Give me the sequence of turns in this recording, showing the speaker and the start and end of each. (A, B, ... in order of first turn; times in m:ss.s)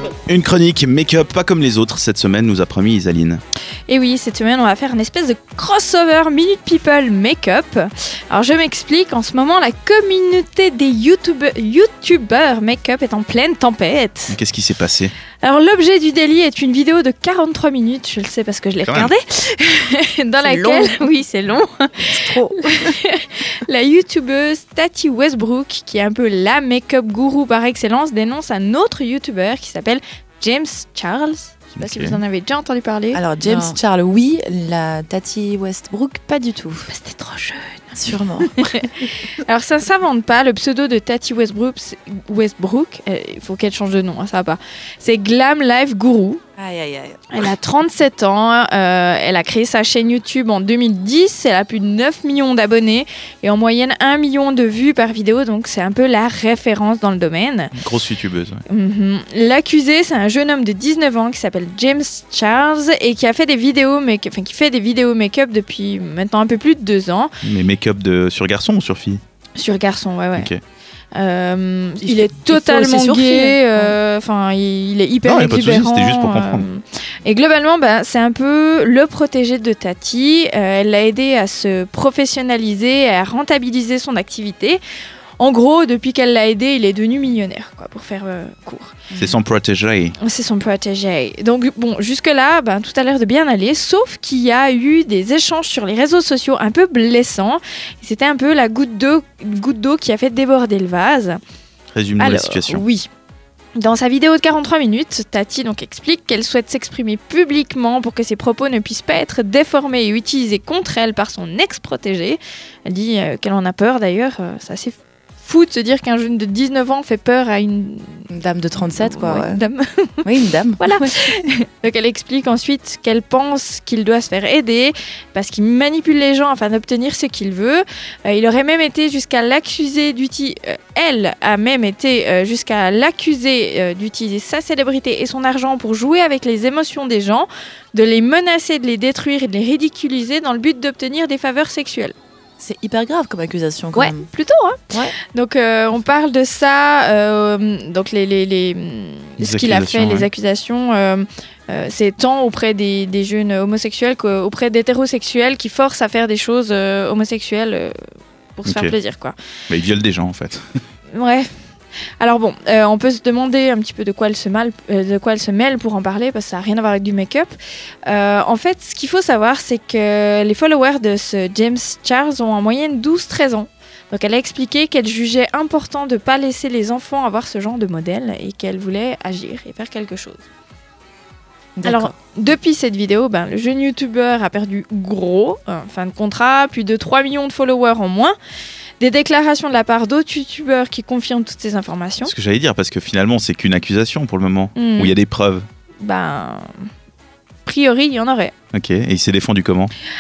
0:00.3-0:03.4 A
0:03.9-0:14.4 B
0:14.3-0:15.1 A
0:15.4-0:33.7 B
0:18.8-0:19.1 A
0:20.5-0:20.9 C
0:22.0-0:22.9 C
0:31.8-0:32.2 A
0:33.1-0:36.9 C
0:36.9-0:38.0 B
0:37.9-0:38.7 C
0:38.5-0:46.4 B
0:46.6-0:47.5 C
0:47.3-0:57.7 B
0:57.8-0:58.6 A
0:58.7-1:07.3 B
1:07.4-1:09.2 A
1:09.6-1:10.5 B
1:11.2-1:24.8 B
1:12.0-1:14.0 C
1:15.2-1:16.7 A
1:25.4-1:29.0 B
1:29.2-1:30.1 A
1:30.2-1:41.4 B
1:41.9-1:42.8 A
1:42.2-1:43.1 B
1:43.8-1:58.3 B
1:58.3-1:59.6 C
1:58.8-2:00.3 B
2:00.2-2:01.4 C
2:00.8-2:22.2 B
2:22.6-2:24.3 C
2:23.9-2:37.9 B
2:29.4-2:30.3 A
2:38.6-2:39.4 B
2:38.7-2:38.9 A
2:39.7-2:40.6 A
2:41.1-2:41.5 B
2:42.2-2:47.5 B
2:48.1-3:00.4 B
3:01.8-3:02.1 C
3:01.8-3:08.4 B
3:09.0-3:12.3 B
3:12.2-3:15.6 A
3:14.8-3:15.2 B
3:16.0-3:16.7 B
3:17.6-3:18.5 B
3:18.7-3:19.9 A